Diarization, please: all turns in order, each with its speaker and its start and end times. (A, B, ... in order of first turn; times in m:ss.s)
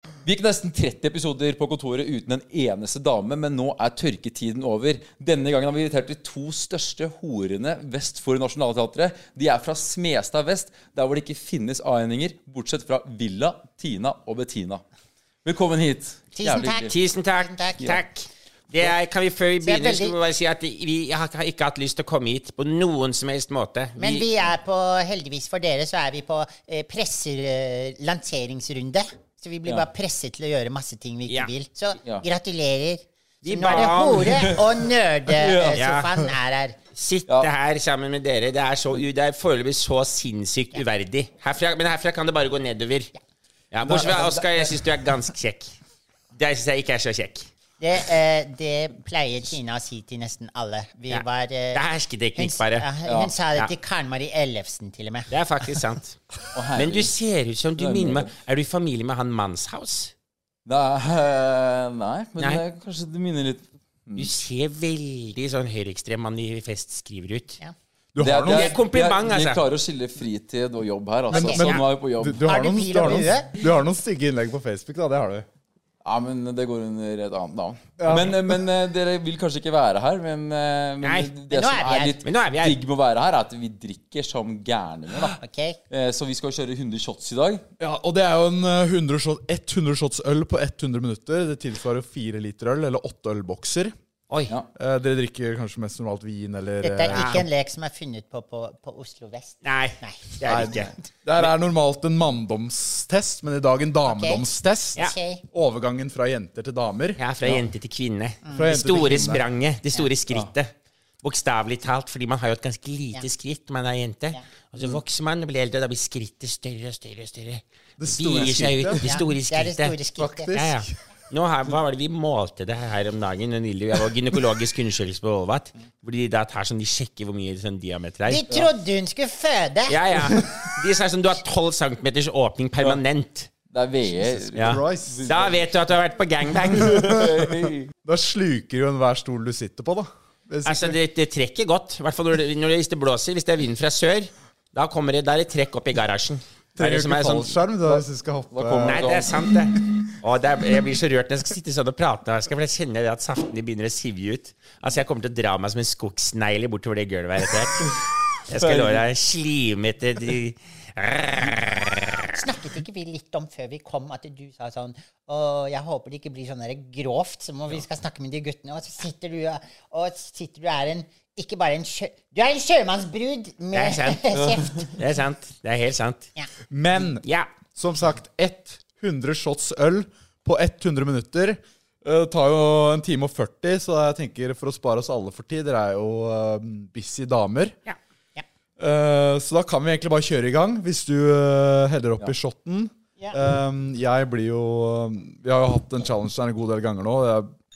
0:00.2-0:14.8 A
0:15.4-0:16.9 A
0:16.3-0:17.9 B
0:16.8-0:24.2 C
0:19.6-0:20.2 B
0:24.0-0:36.8 B
0:33.4-0:34.6 C
0:34.2-0:34.7 A
0:35.3-0:35.8 A
0:35.7-0:36.1 C
0:36.9-0:43.1 C
0:43.7-0:45.7 C
0:43.8-0:44.7 A
0:46.3-0:47.5 C
0:47.8-0:51.8 B
0:51.1-0:52.9 C
0:52.3-0:55.3 B
0:53.0-0:53.3 A
0:55.3-0:56.2 C
0:56.5-0:57.1 A
0:56.7-1:00.1 C
0:57.8-0:58.3 A
1:00.6-1:04.3 A
1:04.2-1:07.6 C
1:08.1-1:08.8 D
1:08.2-1:12.5 A
1:08.4-1:09.6 C
1:11.3-1:11.7 B
1:11.3-1:15.4 D
1:12.4-1:13.5 B
1:16.0-1:25.4 A
1:18.0-1:18.4 D
1:21.0-1:21.3 C
1:21.5-1:22.2 B
1:22.2-1:22.8 C
1:25.4-1:25.8 B
1:25.9-1:27.6 A
1:27.8-1:33.9 D
1:34.7-1:37.4 D
1:36.8-1:40.8 B
1:37.1-1:37.4 C
1:39.6-1:41.5 C
1:40.5-1:47.2 D
1:44.1-1:45.4 B
1:47.2-2:00.0 C
1:48.4-1:48.7 B
1:48.5-1:49.4 D
1:58.0-1:59.2 D
1:59.0-2:00.5 B
2:00.2-2:00.9 D
2:00.5-2:08.4 C
2:08.2-2:10.0 B
2:09.9-2:13.5 C
2:13.7-2:15.7 A
2:14.4-2:15.2 D
2:14.5-2:17.2 C
2:16.5-2:17.9 A
2:16.9-2:17.4 D
2:18.0-2:21.0 D
2:20.6-2:27.6 C
2:26.8-2:29.1 D
2:28.5-2:29.5 A
2:28.8-2:37.9 C
2:38.5-2:42.3 C
2:38.6-2:39.0 A
2:42.3-2:54.9 B
2:53.7-2:54.2 C
2:54.3-2:54.9 A
2:54.9-2:56.3 C
2:56.7-2:57.2 D
2:57.2-2:57.5 C
2:57.8-3:07.8 D
3:08.8-3:17.5 D